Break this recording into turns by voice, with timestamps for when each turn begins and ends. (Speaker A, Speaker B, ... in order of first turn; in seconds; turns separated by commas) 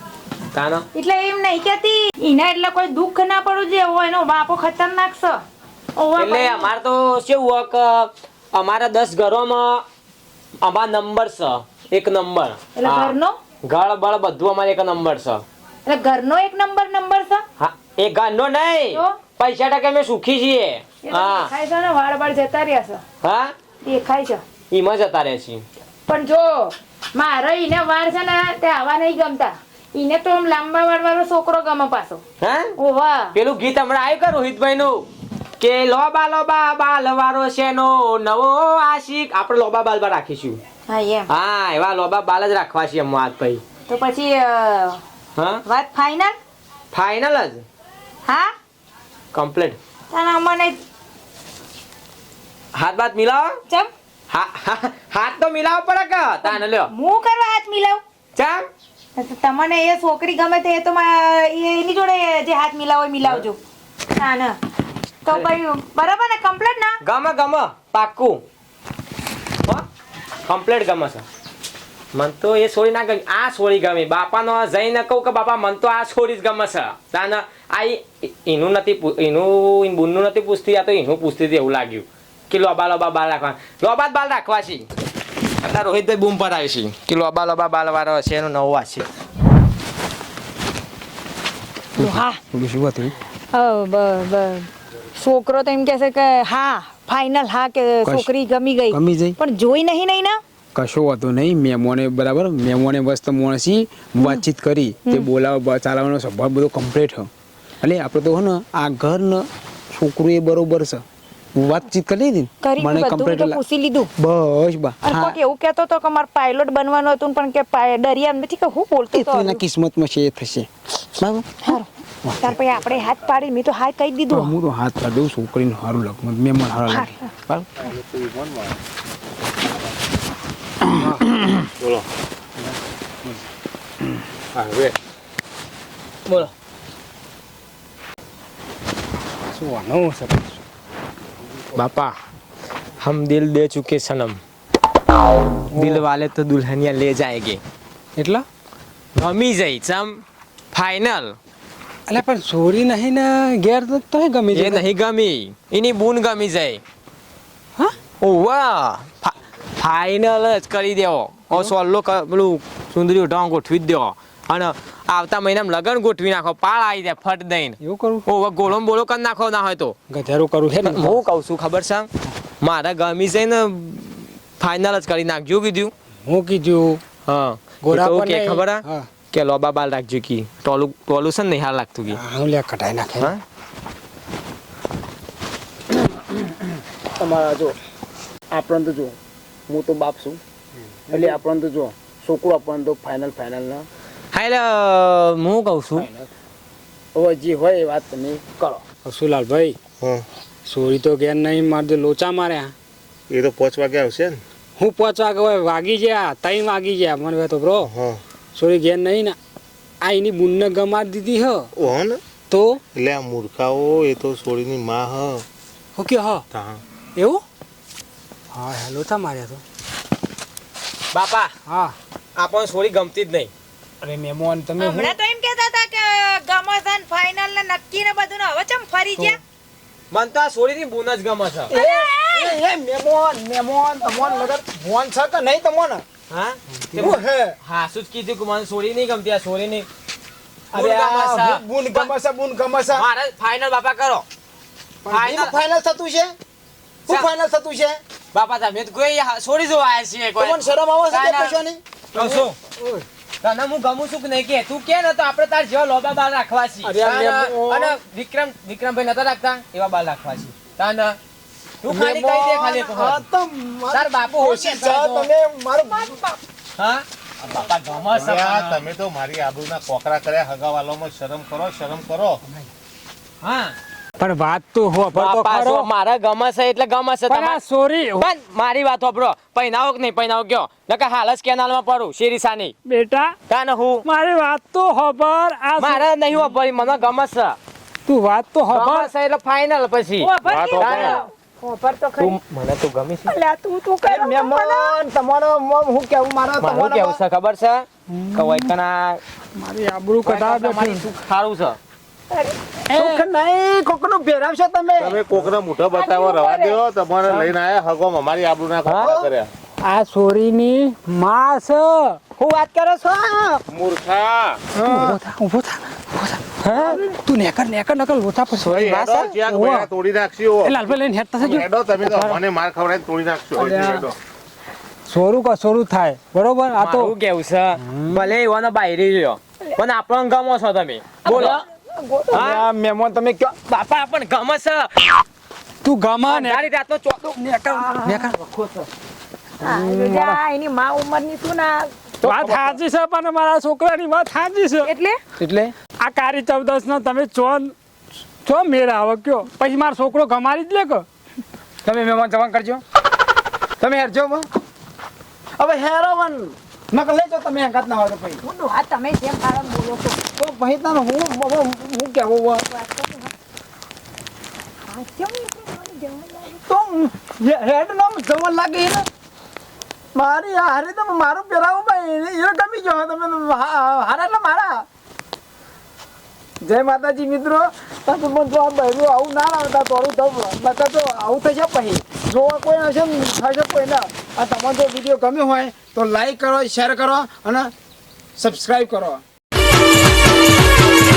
Speaker A: 0.5-0.9, Speaker B: 0.9-5.4, Speaker B: 6.0-6.7, Speaker A: 6.2-9.8, Speaker A: 10.6-15.4, Speaker B: 12.8-13.4, Speaker B: 15.9-17.4, Speaker A: 17.6-21.5, Speaker B: 18.9-19.2, Speaker B: 21.0-23.0, Speaker A: 23.2-23.5, Speaker B: 23.8-24.4, Speaker A: 24.7-25.6, Speaker B: 26.1-32.2, Speaker A: 32.4-32.7, Speaker B: 32.8-33.4, Speaker A: 33.3-35.1, Speaker A: 35.6-40.6, Speaker B: 40.9-41.3, Speaker A: 41.3-43.6, Speaker B: 43.9-45.0, Speaker A: 45.4-45.6, Speaker B: 45.6-46.4, Speaker A: 46.9-47.6, Speaker B: 48.2-48.5, Speaker A: 49.3-49.8, Speaker B: 50.1-50.8, Speaker A: 52.7-53.5, Speaker A: 54.3-56.9, Speaker B: 56.4-58.0, Speaker A: 58.4-58.6, Speaker B: 59.2-63.6, Speaker B: 64.2-64.6, Speaker B: 65.2-67.0, Speaker A: 67.0-68.4, Speaker A: 70.5-71.2, Speaker A: 72.1-84.9, Speaker A: 85.6-89.1, Speaker B: 92.0-92.4, Speaker C: 92.0-93.2, Speaker B: 93.5-100.4, Speaker C: 98.0-98.3, Speaker C: 98.9-99.4, Speaker C: 100.8-107.3, Speaker C: 107.8-111.0, Speaker C: 111.6-113.6, Speaker B: 112.6-114.1, Speaker C: 114.2-115.4, Speaker B: 115.0-119.6, Speaker C: 119.1-122.6, Speaker B: 122.4-124.5, Speaker C: 124.3-127.7, Speaker B: 126.9-127.2, Speaker D: 127.8-128.8, Speaker E: 131.0-131.3, Speaker C: 131.3-131.6, Speaker D: 131.8-132.1, Speaker E: 132.6-133.4, Speaker D: 134.5-135.0, Speaker E: 139.4-140.6, Speaker A: 141.7-142.2, Speaker A: 143.0-144.4, Speaker E: 145.7-146.0, Speaker A: 145.8-147.6, Speaker E: 148.2-148.5, Speaker A: 149.2-150.2, Speaker A: 150.7-151.4, Speaker E: 152.1-154.8, Speaker A: 154.5-156.8, Speaker A: 158.2-169.9, Speaker E: 167.8-168.3, Speaker E: 170.1-171.2, Speaker A: 170.8-172.1, Speaker A: 172.6-175.9, Speaker E: 176.3-177.0, Speaker A: 177.3-182.2, Speaker E: 177.8-179.1, Speaker E: 182.1-183.3, Speaker C: 187.2-187.8, Speaker C: 188.5-189.2, Speaker C: 189.7-190.4, Speaker C: 191.1-193.9, Speaker A: 194.3-196.1, Speaker C: 196.0-196.3, Speaker C: 197.2-198.8, Speaker E: 199.1-199.8, Speaker D: 200.0-200.3, Speaker E: 200.7-202.7, Speaker D: 203.3-204.4, Speaker E: 204.8-207.9, Speaker D: 207.8-208.2, Speaker E: 208.6-209.4, Speaker E: 210.0-211.7, Speaker D: 211.8-212.2, Speaker E: 212.5-212.8, Speaker D: 212.9-215.4, Speaker E: 216.0-216.4, Speaker D: 216.5-216.8, Speaker E: 217.2-217.4, Speaker E: 218.5-219.6, Speaker A: 221.1-221.5, Speaker E: 221.7-222.0, Speaker A: 222.4-223.5, Speaker C: 224.0-225.2, Speaker B: 224.8-229.4, Speaker A: 230.1-231.7, Speaker C: 231.7-236.0, Speaker B: 231.7-232.6, Speaker A: 236.3-239.9, Speaker C: 236.9-237.6, Speaker A: 240.7-242.1, Speaker C: 240.7-243.1, Speaker A: 242.9-244.2, Speaker C: 245.1-246.3, Speaker A: 245.1-245.6, Speaker C: 247.1-248.0, Speaker A: 248.3-251.6, Speaker C: 250.4-253.0, Speaker A: 252.1-252.6, Speaker A: 253.4-261.2, Speaker C: 256.8-258.0, Speaker A: 261.8-263.3, Speaker C: 261.9-266.4, Speaker A: 263.9-265.3, Speaker A: 266.8-268.8, Speaker D: 268.1-272.4, Speaker A: 273.4-273.8, Speaker E: 274.2-275.9, Speaker A: 275.1-277.6, Speaker E: 277.3-278.3, Speaker A: 278.2-282.7, Speaker E: 282.9-283.4, Speaker A: 283.5-284.0, Speaker E: 284.0-286.0, Speaker A: 285.8-287.6, Speaker E: 288.1-289.1, Speaker A: 288.7-291.2, Speaker B: 290.2-292.4, Speaker D: 290.4-291.2, Speaker A: 292.2-293.3, Speaker B: 293.3-295.0, Speaker C: 294.0-297.2, Speaker A: 296.6-299.2, Speaker E: 298.1-298.7, Speaker E: 299.6-301.1, Speaker A: 300.2-301.8, Speaker B: 302.3-302.7, Speaker E: 302.9-303.3, Speaker C: 302.9-305.2, Speaker D: 305.0-309.5, Speaker B: 305.9-306.8, Speaker A: 308.9-309.2, Speaker E: 309.8-312.2, Speaker A: 312.4-313.0, Speaker C: 313.0-313.5, Speaker D: 313.7-314.6, Speaker C: 314.7-315.2, Speaker E: 314.8-318.8, Speaker C: 316.7-317.0, Speaker D: 318.6-324.1, Speaker A: 318.7-319.4, Speaker E: 319.5-319.9, Speaker E: 320.6-322.4, Speaker C: 323.6-324.1, Speaker E: 325.1-327.1, Speaker A: 326.8-331.6, Speaker E: 327.8-328.2, Speaker C: 331.2-333.6, Speaker A: 332.3-332.7, Speaker A: 333.7-335.1, Speaker E: 335.8-336.7, Speaker A: 336.3-337.3, Speaker E: 337.4-338.4, Speaker A: 338.4-338.9, Speaker B: 339.6-342.1, Speaker C: 339.6-340.4, Speaker C: 342.2-342.8, Speaker E: 342.2-344.9, Speaker B: 344.8-345.2, Speaker C: 345.4-345.8, Speaker E: 346.0-347.7, Speaker E: 348.4-351.1, Speaker C: 351.8-352.8, Speaker C: 353.8-354.5, Speaker C: 355.6-358.4, Speaker B: 358.4-360.2, Speaker C: 360.3-362.6, Speaker B: 362.7-363.3, Speaker B: 364.9-366.5, Speaker C: 366.5-369.1, Speaker C: 370.1-374.9, Speaker C: 376.6-387.7, Speaker C: 388.4-389.2